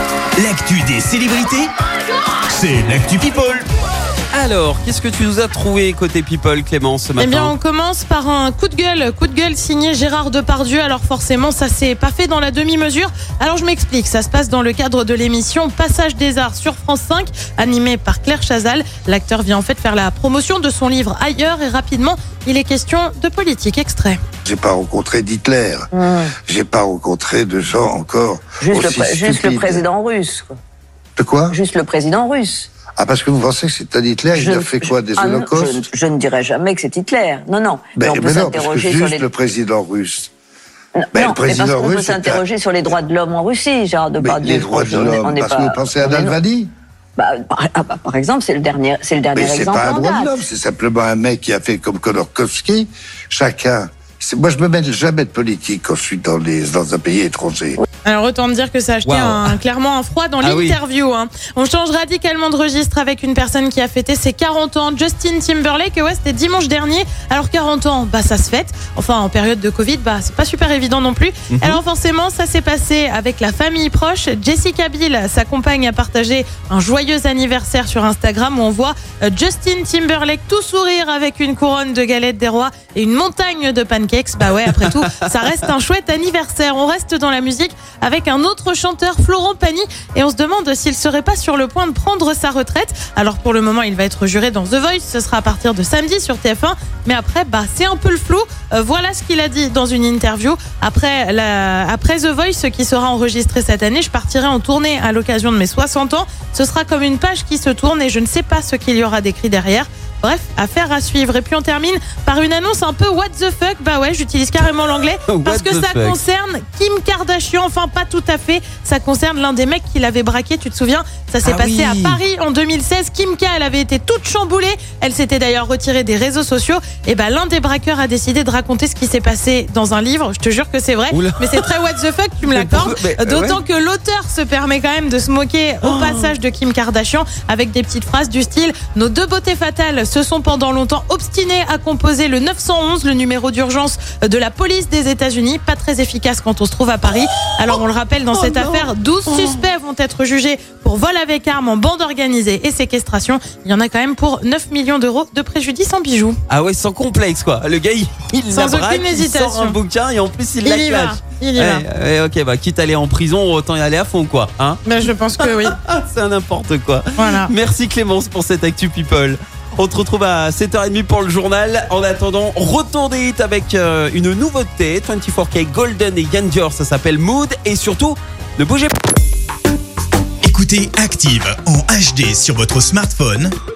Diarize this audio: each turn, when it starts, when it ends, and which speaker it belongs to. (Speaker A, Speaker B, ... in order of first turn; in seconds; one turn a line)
Speaker A: 0.4-1.7
Speaker A: 2.4-3.6
Speaker B: 4.3-7.5
Speaker C: 7.2-24.2
Speaker D: 24.4-29.8
Speaker E: 25.9-26.3
Speaker E: 28.6-30.6
Speaker D: 31.2-31.6
Speaker E: 31.5-32.7
Speaker D: 32.9-35.9
Speaker E: 34.3-39.2
Speaker D: 38.0-40.3
Speaker E: 41.0-46.4
Speaker D: 41.1-42.4
Speaker D: 44.2-46.7
Speaker E: 47.2-50.4
Speaker D: 49.3-57.8
Speaker C: 58.0-156.4
Speaker B: 59.0-59.5
Speaker B: 60.4-60.8
Speaker B: 71.5-71.8
Speaker B: 115.3-116.2
Speaker B: 121.4-122.2
Speaker B: 131.1-131.8
Speaker B: 132.4-133.6
Speaker B: 135.8-136.3
Speaker B: 148.3-149.6
Speaker B: 156.5-164.8
Speaker C: 158.5-159.8
Speaker C: 160.6-161.8
Speaker C: 164.8-165.8
Speaker B: 165.4-178.9
Speaker C: 167.2-167.5
Speaker A: 180.4-183.5